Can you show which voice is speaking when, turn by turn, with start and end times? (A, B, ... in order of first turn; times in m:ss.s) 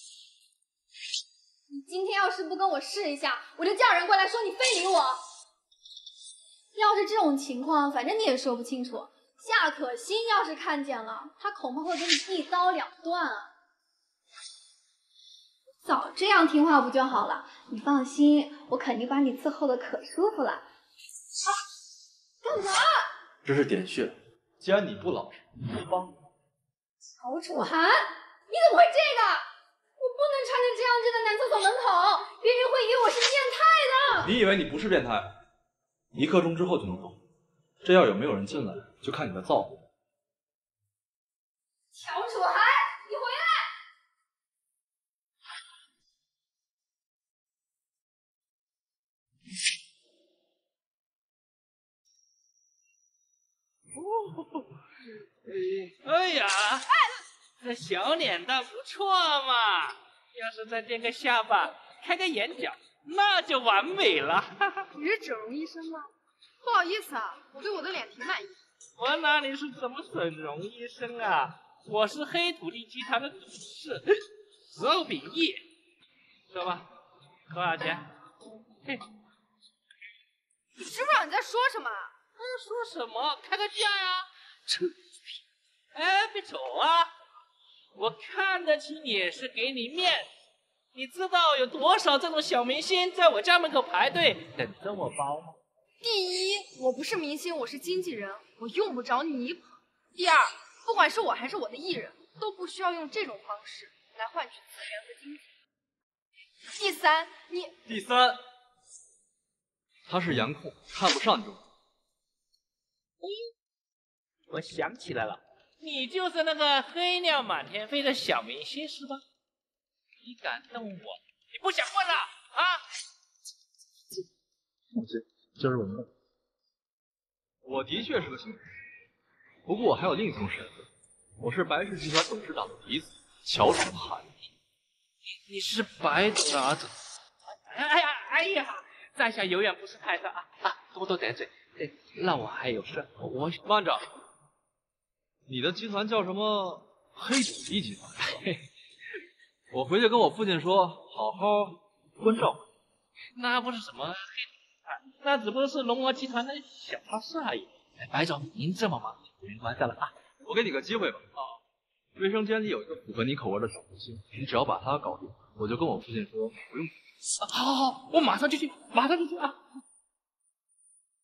0:01.7-0:05.2 A
0:06.8-0:13.5 A
0:15.9-0:17.5 A
0:18.1-0:18.5 A
0:22.4-0:23.0 A
0:23.4-0:26.1 B
0:27.2-0:29.4 A
0:30.0-0:34.3 A
0:34.2-0:35.3 B
0:36.1-0:37.2 B
0:37.8-0:39.8 B
0:42.0-0:43.6 A
0:56.0-0:56.9 C
0:57.6-1:04.8 C
1:05.0-1:06.0 D
1:06.6-1:08.6 D
1:09.0-1:14.1 C
1:14.7-1:15.6 C
1:16.5-1:16.9 C
1:17.5-1:18.1 C
1:20.8-1:22.1 D
1:22.4-1:24.3 C
1:25.9-1:27.1 C
1:28.0-1:30.3 C
1:30.9-1:35.6 C
1:36.0-1:45.4 D
1:46.7-1:47.7 D
1:47.9-1:48.4 B
1:50.1-1:51.6 B
1:54.5-1:59.2 C
2:00.2-2:02.8 C
2:05.0-2:06.0 B
2:07.6-2:08.6 B
2:09.7-2:10.9 B
2:11.4-2:14.3 B
2:15.5-2:16.9 C
2:17.7-2:23.6 C
2:23.6-2:24.0 B
2:25.5-2:28.4 B
2:29.7-2:32.6 B
2:33.4-2:34.5 C
2:35.2-2:40.1 C
2:40.4-2:41.3 B
2:42.2-2:46.9 B
2:47.5-2:49.5 C